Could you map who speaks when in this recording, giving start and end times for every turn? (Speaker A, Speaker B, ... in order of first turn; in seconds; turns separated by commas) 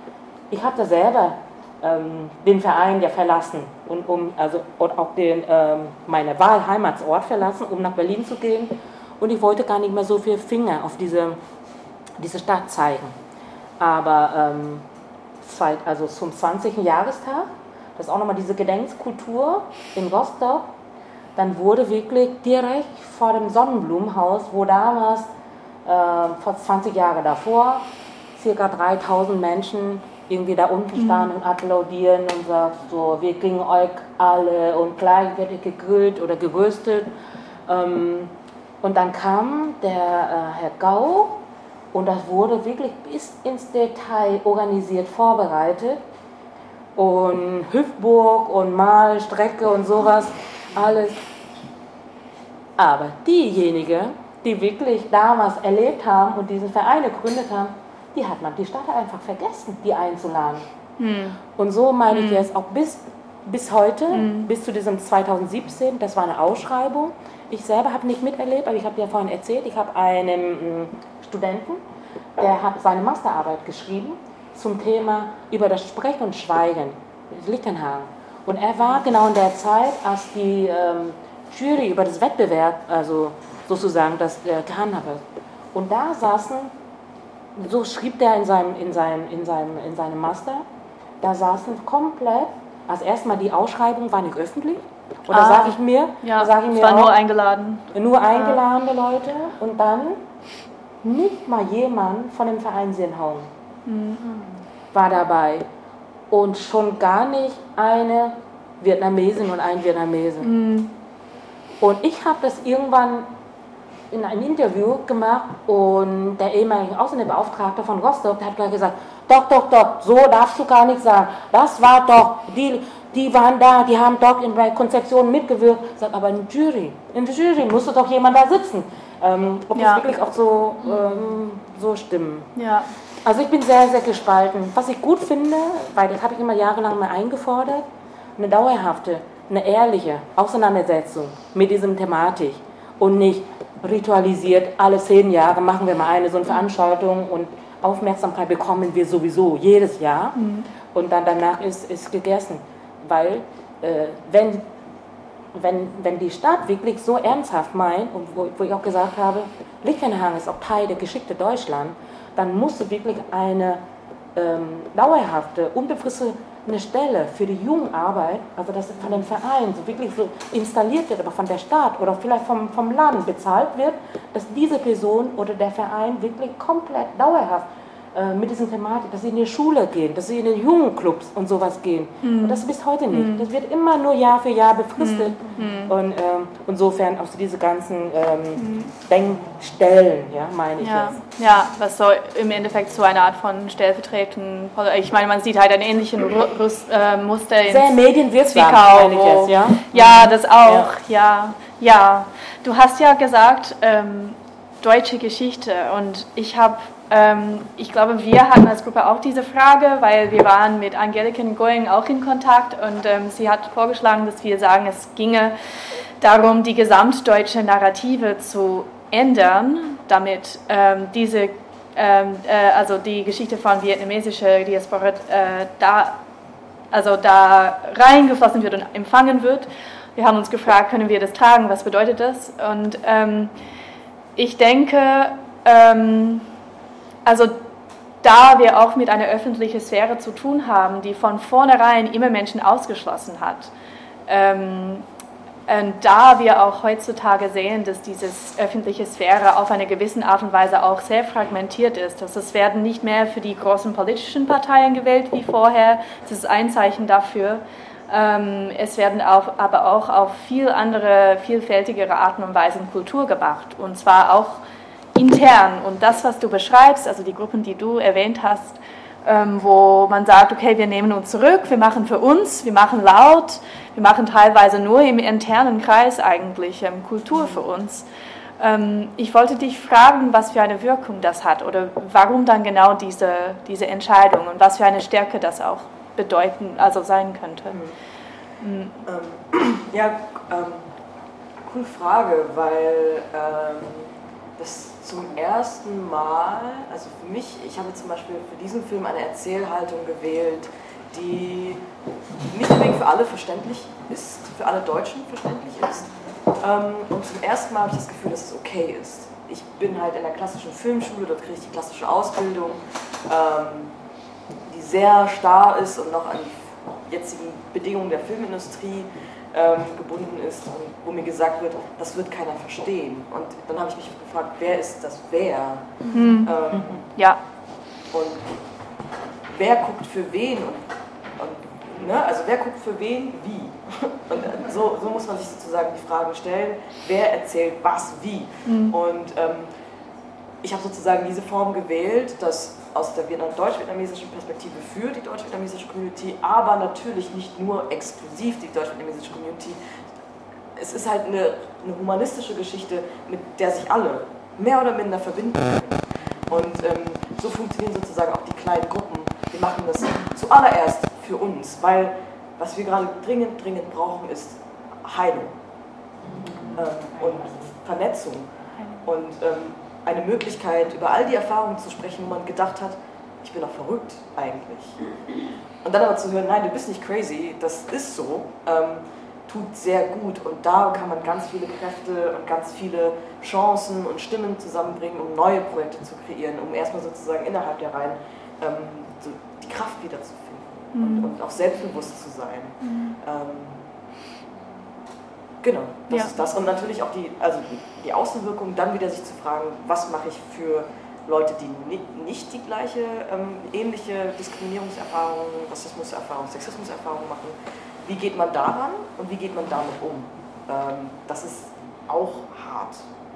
Speaker A: 0.5-11.4, Speaker A: 12.2-13.2, Speaker A: 13.8-14.8, Speaker A: 15.4-20.7, Speaker A: 21.4-25.3, Speaker A: 25.9-37.1, Speaker B: 31.0-31.3, Speaker A: 37.7-41.4, Speaker A: 41.9-46.0, Speaker A: 47.0-51.2, Speaker A: 52.8-60.7, Speaker B: 61.0-61.4, Speaker A: 61.6-71.8, Speaker B: 62.1-62.5, Speaker B: 64.1-64.5, Speaker A: 72.4-85.2, Speaker A: 85.7-86.7, Speaker A: 87.6-90.7, Speaker A: 91.2-97.2, Speaker B: 95.3-98.6, Speaker A: 97.9-100.2, Speaker A: 101.0-103.5, Speaker B: 103.9-104.5, Speaker A: 104.9-105.7, Speaker A: 106.3-110.5, Speaker B: 110.4-110.9, Speaker A: 111.8-113.3, Speaker A: 114.1-132.5, Speaker B: 129.8-130.0, Speaker B: 132.6-132.9, Speaker A: 133.2-137.8, Speaker A: 138.4-150.4, Speaker B: 150.4-150.7, Speaker A: 150.9-154.7, Speaker A: 155.5-163.8, Speaker A: 164.3-191.2, Speaker B: 182.2-183.5, Speaker B: 185.0-185.9, Speaker B: 188.6-188.9, Speaker B: 190.8-215.6, Speaker A: 197.7-200.9, Speaker B: 216.2-226.2, Speaker B: 226.9-233.5, Speaker B: 234.4-236.5, Speaker B: 237.2-237.6, Speaker B: 238.2-243.7, Speaker B: 244.3-245.1, Speaker B: 245.7-264.6, Speaker B: 265.1-278.1, Speaker B: 278.6-287.8, Speaker B: 288.6-289.0, Speaker C: 289.1-290.9, Speaker C: 291.7-301.9, Speaker C: 302.5-313.9, Speaker C: 314.7-327.1, Speaker B: 326.1-326.5, Speaker B: 327.2-327.4, Speaker C: 328.1-328.5, Speaker C: 329.5-339.7, Speaker B: 338.7-339.0, Speaker C: 340.6-349.8, Speaker C: 350.8-365.6, Speaker C: 366.7-368.5, Speaker C: 369.0-375.0, Speaker C: 375.8-393.8, Speaker B: 390.9-391.3, Speaker C: 395.6-413.1